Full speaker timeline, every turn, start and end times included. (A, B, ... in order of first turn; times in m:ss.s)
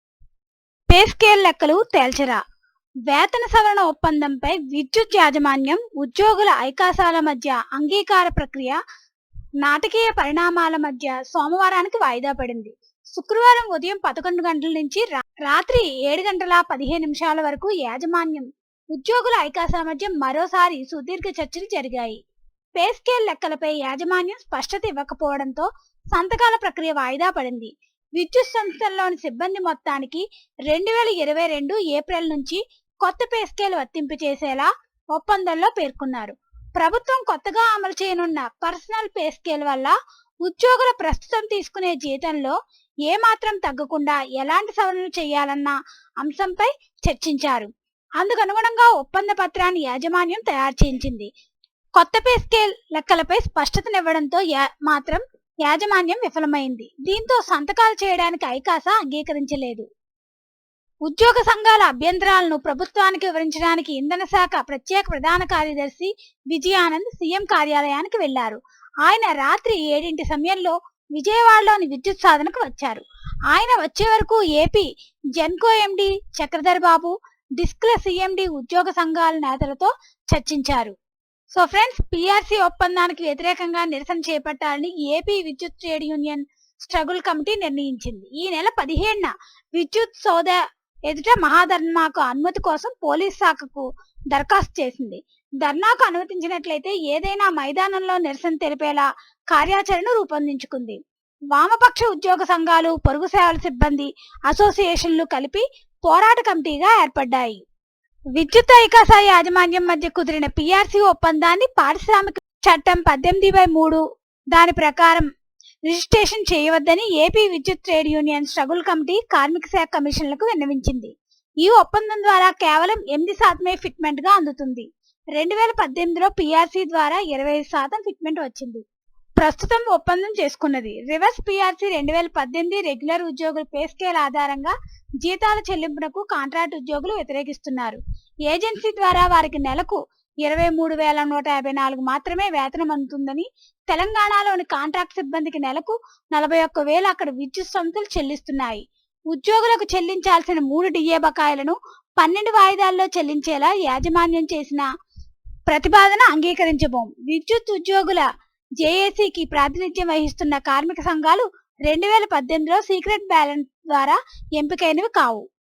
0:00.9-0:02.4 A
0:03.1-0:08.8 A
0:09.6-0:22.2 A
0:22.8-0:51.3 A
0:52.0-0:59.9 A
1:01.0-1:21.0 A
1:21.5-1:41.0 A
1:41.5-1:47.6 A
1:48.4-1:54.0 A
1:54.5-1:55.3 A
1:55.9-2:08.8 A
2:09.4-2:34.9 A
2:35.7-2:38.3 A
2:38.8-2:45.4 A